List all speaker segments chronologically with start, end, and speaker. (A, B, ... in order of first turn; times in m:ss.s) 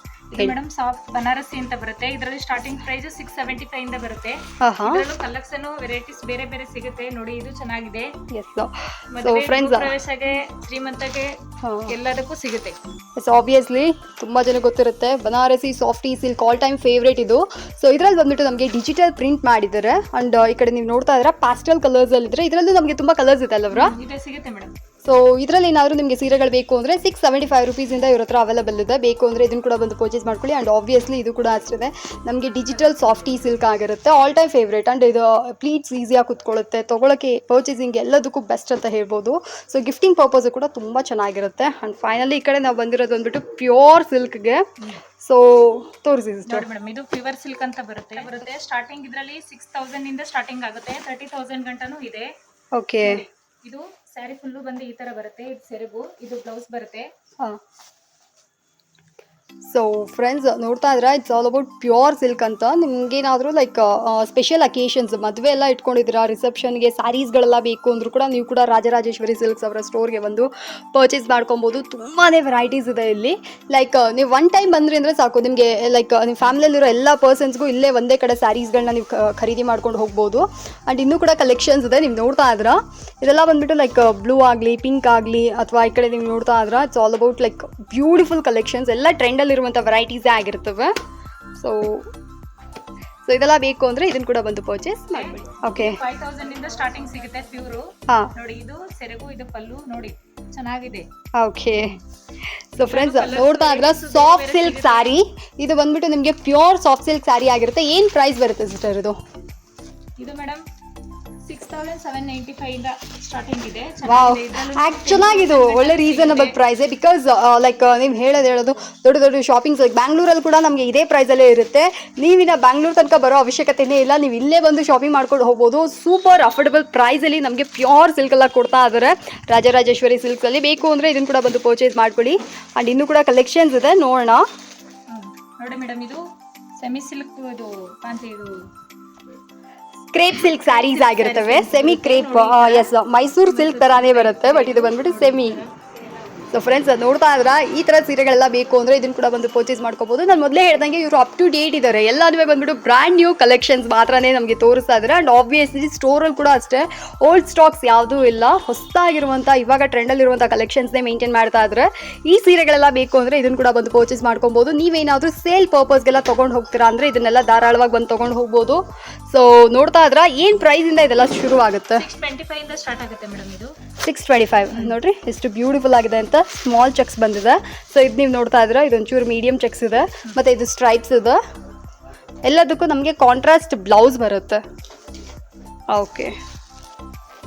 0:00.3-0:08.1 A
0:04.6-0:05.1 B
0:08.3-0:09.9 B
0:09.1-0:12.8 A
0:11.6-0:12.0 B
0:13.2-0:24.0 B
0:23.7-0:24.7 A
0:25.0-0:44.6 B
0:45.2-0:46.7 B
0:46.5-0:52.3 A
0:52.7-0:53.2 B
0:53.0-0:57.1 A
0:59.6-1:30.9 B
1:31.6-1:32.1 B
1:33.3-1:36.0 B
1:35.1-1:41.1 A
1:41.4-1:42.0 B
1:42.7-1:49.2 B
1:42.9-1:45.2 A
1:50.2-1:50.6 A
1:51.4-1:56.6 A
1:54.0-2:14.4 B
2:15.1-2:16.2 A
2:16.8-2:18.6 A
2:20.1-2:25.6 B
2:20.4-2:22.9 A
2:23.4-2:25.7 A
2:26.5-2:52.1 B
2:52.0-2:53.7 A
2:54.0-3:01.4 B
2:54.7-2:55.0 A
3:02.4-3:04.6 B
3:05.9-3:06.3 B